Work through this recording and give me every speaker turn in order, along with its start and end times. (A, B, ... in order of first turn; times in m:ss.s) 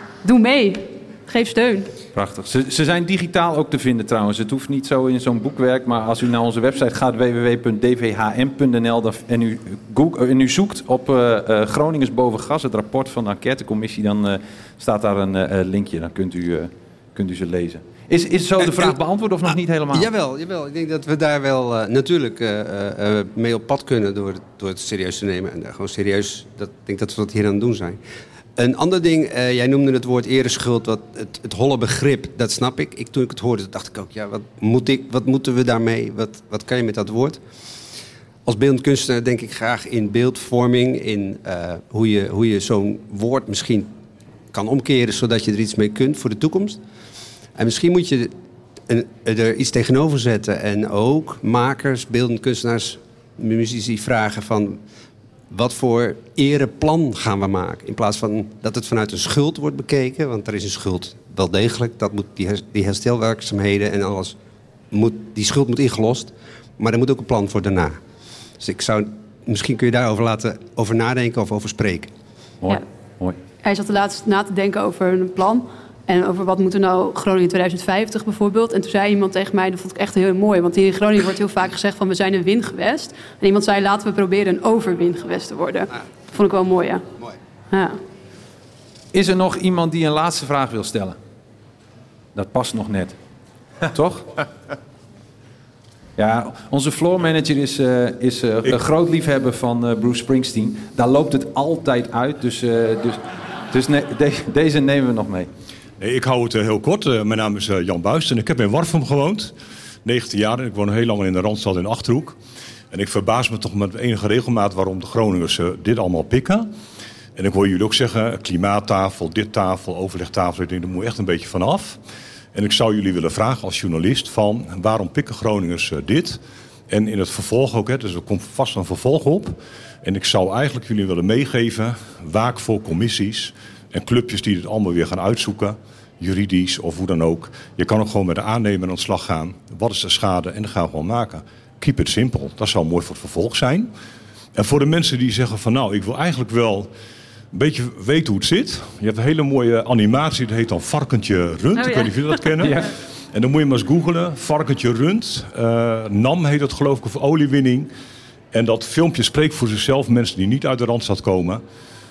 0:00.2-0:01.9 A
0:02.2-0:20.1 B
0:20.0-0:28.0 C
0:28.6-0:37.4 C
0:38.5-0:43.9 C
0:44.5-0:46.8 C
0:47.6-0:48.3 C
0:48.9-0:54.8 C
0:55.5-1:04.4 C
1:04.9-1:08.0 C
1:08.6-1:12.1 C
1:12.6-1:13.4 B
1:13.6-1:27.0 A
1:27.7-1:28.0 A
1:29.1-1:31.2 B
1:32.4-1:33.2 B
1:33.9-1:34.3 B
1:36.2-1:43.2 B
1:43.7-1:45.5 B
1:46.0-1:49.5 D
1:50.0-1:52.4 D
1:52.9-1:56.7 D
1:57.4-2:02.0 D
2:02.6-2:23.9 D
2:24.6-2:26.9 D
2:27.5-2:37.9 D
2:31.8-2:32.7 A
2:32.6-2:32.9 B
2:38.5-2:41.6 D